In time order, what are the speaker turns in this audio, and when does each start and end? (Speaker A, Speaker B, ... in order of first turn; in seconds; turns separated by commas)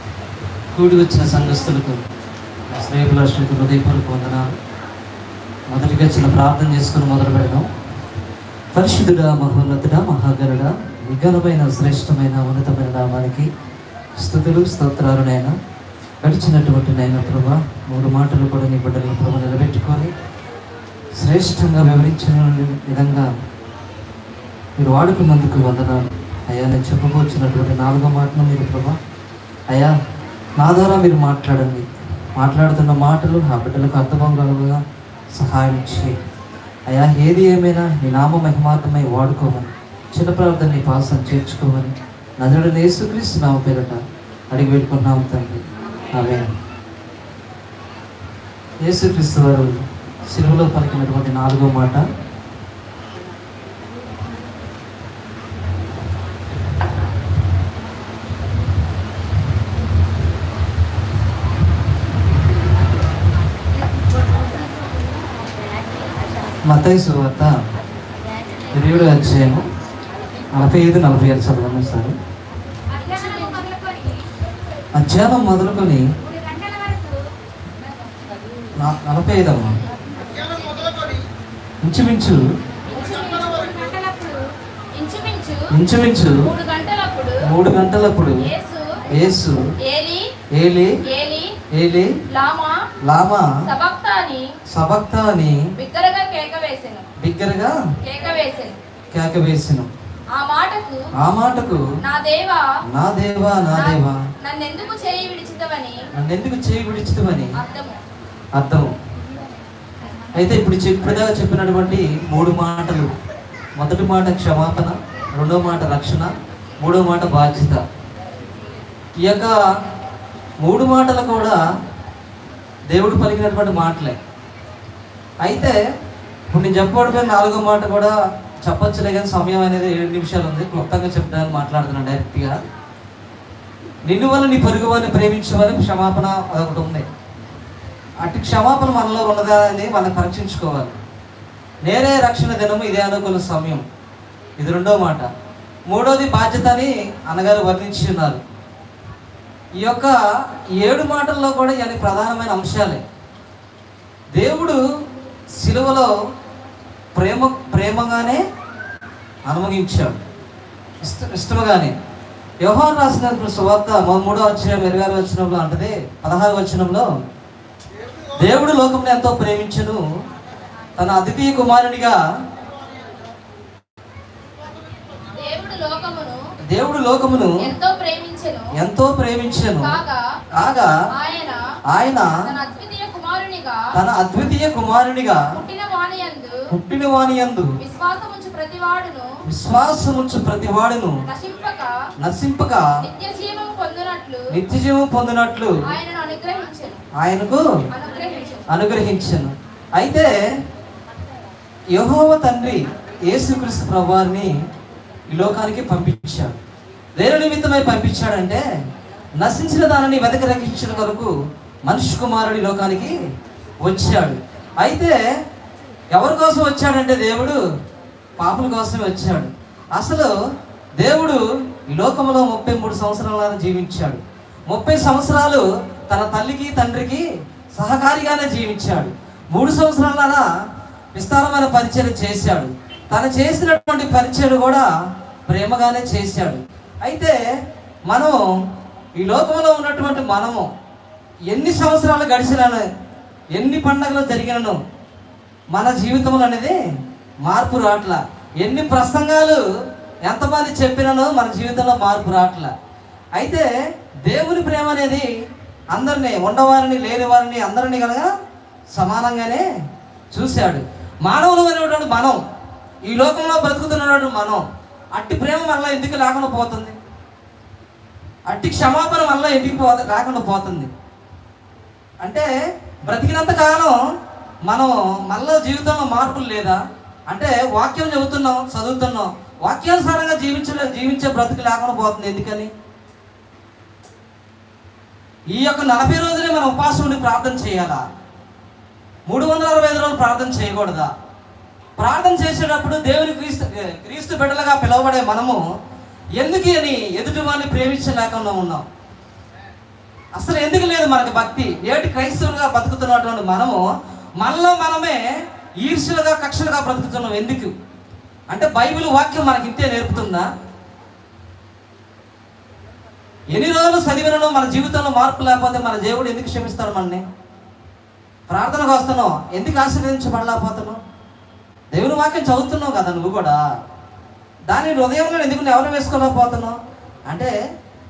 Speaker A: 0.7-2.0, Speaker A: 2.7-4.6, Speaker A: 5.7-7.7, Speaker A: 8.7-13.5, Speaker A: 14.2-15.6, Speaker A: 16.2-20.1, Speaker A: 21.2-23.3, Speaker A: 24.8-29.0, Speaker A: 29.7-29.9, Speaker A: 30.6-34.8, Speaker A: 35.3-36.2, Speaker A: 36.9-45.6, Speaker A: 46.1-46.5, Speaker A: 48.8-52.0, Speaker A: 66.7-67.6, Speaker A: 68.7-69.7, Speaker A: 70.5-72.2, Speaker B: 72.9-74.2, Speaker A: 75.0-76.1, Speaker B: 76.4-77.1, Speaker A: 78.8-79.8, Speaker B: 80.4-80.9, Speaker A: 81.8-82.4, Speaker B: 82.9-85.7, Speaker A: 85.7-86.5, Speaker B: 86.3-87.5, Speaker A: 87.4-88.5, Speaker B: 88.4-89.0, Speaker A: 89.1-89.7, Speaker B: 89.8-90.3, Speaker A: 90.5-91.0, Speaker B: 91.0-91.6, Speaker A: 91.7-92.2, Speaker B: 92.3-92.9, Speaker A: 93.0-93.6, Speaker B: 93.7-94.5, Speaker A: 94.7-95.7, Speaker B: 95.8-97.1, Speaker A: 97.2-97.8, Speaker B: 98.0-98.8, Speaker A: 99.1-99.9, Speaker B: 100.3-101.1, Speaker A: 101.2-101.8, Speaker B: 102.0-102.7, Speaker A: 102.9-104.2, Speaker B: 103.7-106.1, Speaker A: 106.1-107.6, Speaker B: 107.6-108.0, Speaker A: 108.5-108.9, Speaker A: 110.3-113.1, Speaker A: 113.8-117.8, Speaker A: 119.2-119.6, Speaker A: 120.6-121.6, Speaker A: 122.9-124.2, Speaker A: 125.4-125.8, Speaker A: 126.5-132.6, Speaker A: 134.1-137.1, Speaker A: 138.2-141.0, Speaker A: 141.8-143.8, Speaker A: 144.6-145.3, Speaker A: 145.9-148.4, Speaker A: 149.8-153.0, Speaker A: 154.3-154.8, Speaker A: 155.5-156.1, Speaker A: 157.1-158.4, Speaker A: 159.4-160.2, Speaker A: 161.0-161.9, Speaker A: 162.6-167.1, Speaker A: 168.4-170.0, Speaker A: 171.0-172.2, Speaker B: 175.3-176.4, Speaker A: 176.7-177.7, Speaker B: 177.6-178.7, Speaker A: 178.7-180.0, Speaker B: 179.8-180.4, Speaker A: 180.5-181.0, Speaker B: 181.1-181.6, Speaker A: 181.9-182.4, Speaker B: 182.3-183.9, Speaker A: 183.9-185.5, Speaker B: 185.5-186.7, Speaker A: 186.7-187.7, Speaker B: 187.8-189.4, Speaker A: 189.4-191.2, Speaker B: 191.3-192.1, Speaker A: 192.2-193.0, Speaker B: 193.0-194.5, Speaker A: 194.5-195.8, Speaker B: 195.8-197.0, Speaker A: 197.2-197.6, Speaker B: 197.9-198.7, Speaker A: 198.7-200.4, Speaker A: 201.9-204.5, Speaker A: 205.3-206.5, Speaker A: 207.2-208.6, Speaker A: 209.4-211.3, Speaker A: 211.8-213.1, Speaker A: 213.8-215.2, Speaker A: 216.1-217.6, Speaker A: 218.4-220.3, Speaker A: 221.0-230.5, Speaker A: 231.1-234.9, Speaker A: 235.5-237.4, Speaker A: 238.1-238.4, Speaker A: 239.1-240.7, Speaker A: 241.5-242.8, Speaker A: 243.5-244.8, Speaker A: 245.7-246.8, Speaker A: 247.4-249.6, Speaker A: 250.2-252.7, Speaker A: 253.3-253.7, Speaker A: 254.2-255.3, Speaker A: 255.9-258.3, Speaker A: 258.9-259.6, Speaker A: 260.3-262.4, Speaker A: 263.0-267.0, Speaker A: 268.5-270.9, Speaker A: 272.2-272.5, Speaker A: 273.0-274.0, Speaker A: 274.6-282.7, Speaker A: 285.5-288.0, Speaker A: 289.3-291.1, Speaker A: 292.0-295.6, Speaker A: 296.3-298.9, Speaker A: 300.3-305.2, Speaker A: 305.8-307.7, Speaker A: 308.5-310.5, Speaker A: 313.5-317.2, Speaker A: 318.5-321.0, Speaker A: 321.9-323.6, Speaker A: 324.7-327.5